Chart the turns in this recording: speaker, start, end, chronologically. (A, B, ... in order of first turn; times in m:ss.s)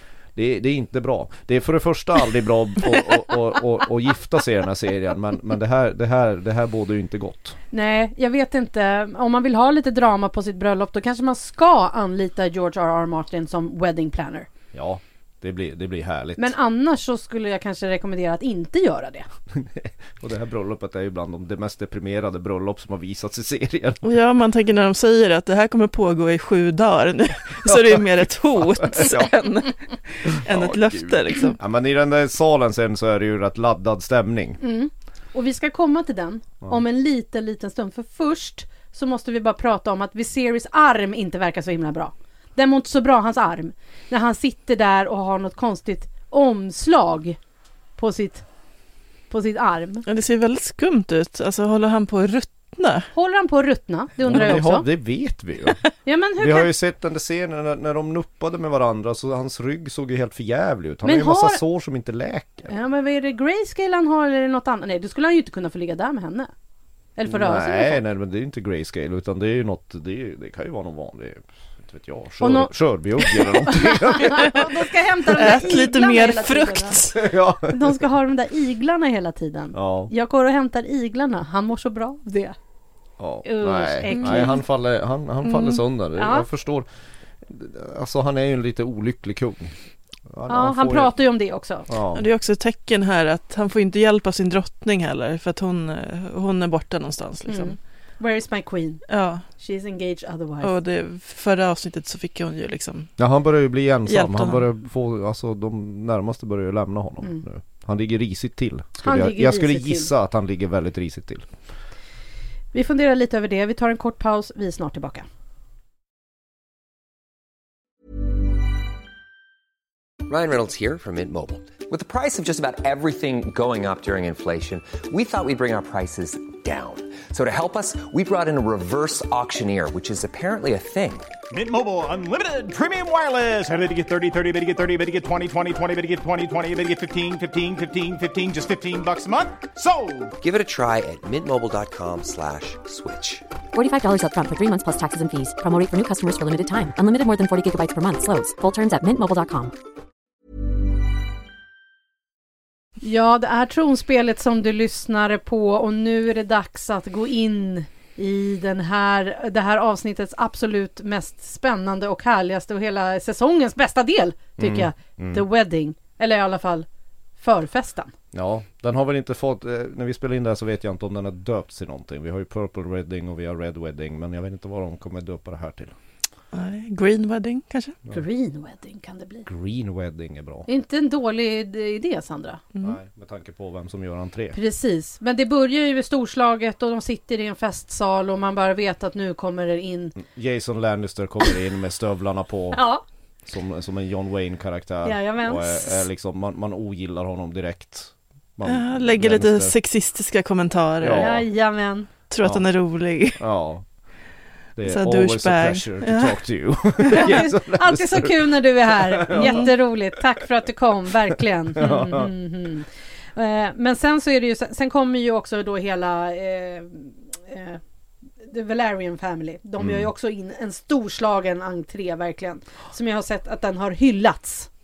0:00.4-0:07.6 A
0:07.7-0:14.5 B
0:14.7-0:16.5 A
0:16.4-0:19.3 B
0:19.5-0:24.0 A
0:24.0-0:31.6 C
0:27.6-0:28.0 A
0:28.6-0:29.3 A
0:30.3-0:34.6 A
0:34.6-0:47.4 B
0:48.0-0:48.4 B
0:49.3-0:50.0 B
0:50.1-0:53.1 C
0:53.1-0:54.9 B
0:54.2-0:55.8 A
0:56.0-0:56.7 B
0:56.4-1:02.7 A
1:01.0-1:01.6 B
1:02.7-1:06.5 B
1:07.2-1:08.0 B
1:07.3-1:14.7 A
1:12.4-1:17.0 B
1:15.3-1:17.2 C
1:17.2-1:18.0 A
1:17.7-1:22.6 B
1:19.7-1:20.1 A
1:23.2-1:26.9 A
1:23.4-1:24.6 B
1:24.1-1:24.5 C
1:25.4-1:25.8 C
1:26.2-1:26.5 B
1:27.4-1:29.8 A
1:30.3-1:31.1 A
1:30.5-1:31.9 B
1:31.9-1:32.3 A
1:32.2-1:37.8 C
1:37.5-1:39.0 B
1:39.1-1:39.4 C
1:39.6-1:40.7 B
1:40.6-1:43.1 C
1:43.2-1:51.5 A
1:44.1-1:44.6 C
1:49.0-1:50.1 B
1:52.7-1:55.3 B
2:00.3-2:11.3 D
2:11.5-2:20.3 E
2:20.4-2:23.4 D
2:23.7-2:29.7 F
2:33.0-2:46.9 B
2:44.6-2:45.4 A
2:47.4-2:48.1 B
2:48.3-2:56.0 A
2:56.5-2:58.0 C
2:58.1-2:59.5 B
2:59.5-3:00.7 A
3:00.7-3:02.6 B
3:02.8-3:04.6 A
3:04.5-3:10.2 B
3:10.2-3:12.9 A
3:12.7-3:13.0 B
3:13.5-3:19.7 A
3:15.0-3:16.1 B
3:18.6-3:21.4 C
3:21.0-3:21.5 A
3:21.2-3:22.1 B
3:22.3-3:23.4 C
3:23.3-3:23.8 A
3:24.8-3:29.7 A
3:24.8-3:26.4 C
3:27.1-3:37.8 B
3:29.4-3:29.7 C
3:31.8-3:32.3 A
3:38.4-3:44.7 B
3:39.8-3:40.1 A